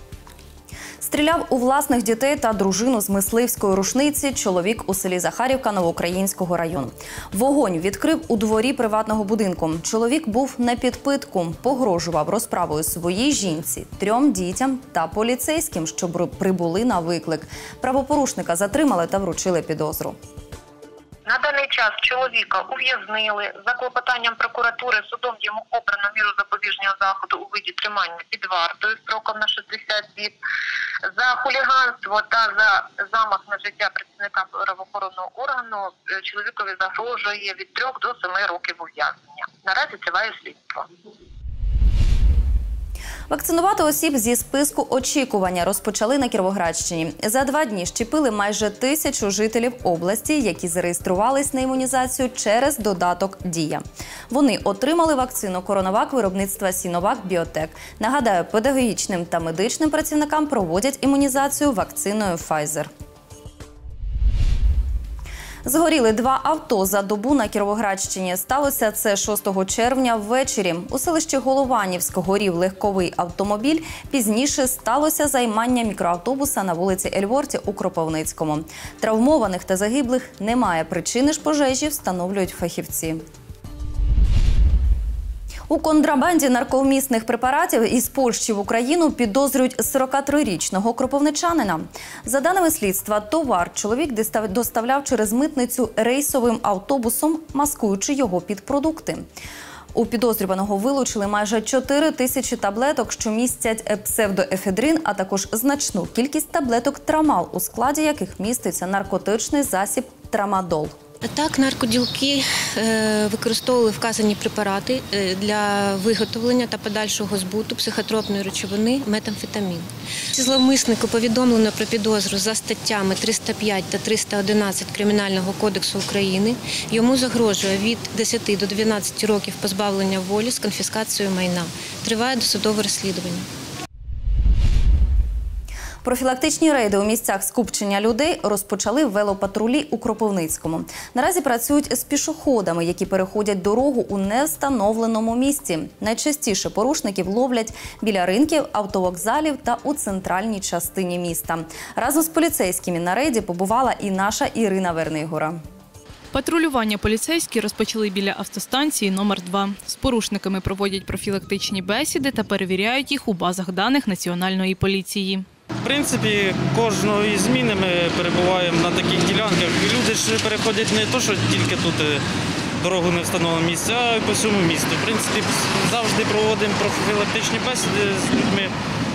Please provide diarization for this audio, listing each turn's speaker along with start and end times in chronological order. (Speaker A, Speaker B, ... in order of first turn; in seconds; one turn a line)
Speaker A: 1.0-20.2
Speaker B: 21.2-30.4
Speaker B: 31.1-40.9
Speaker A: 43.3-62.9
Speaker A: 65.6-83.2
Speaker A: 85.7-99.2
Speaker A: 99.9-111.0
Speaker C: 111.2-133.5
Speaker A: 136.0-155.6
Speaker D: 156.3-165.4
Speaker E: 165.8-172.2
Speaker E: 172.8-178.7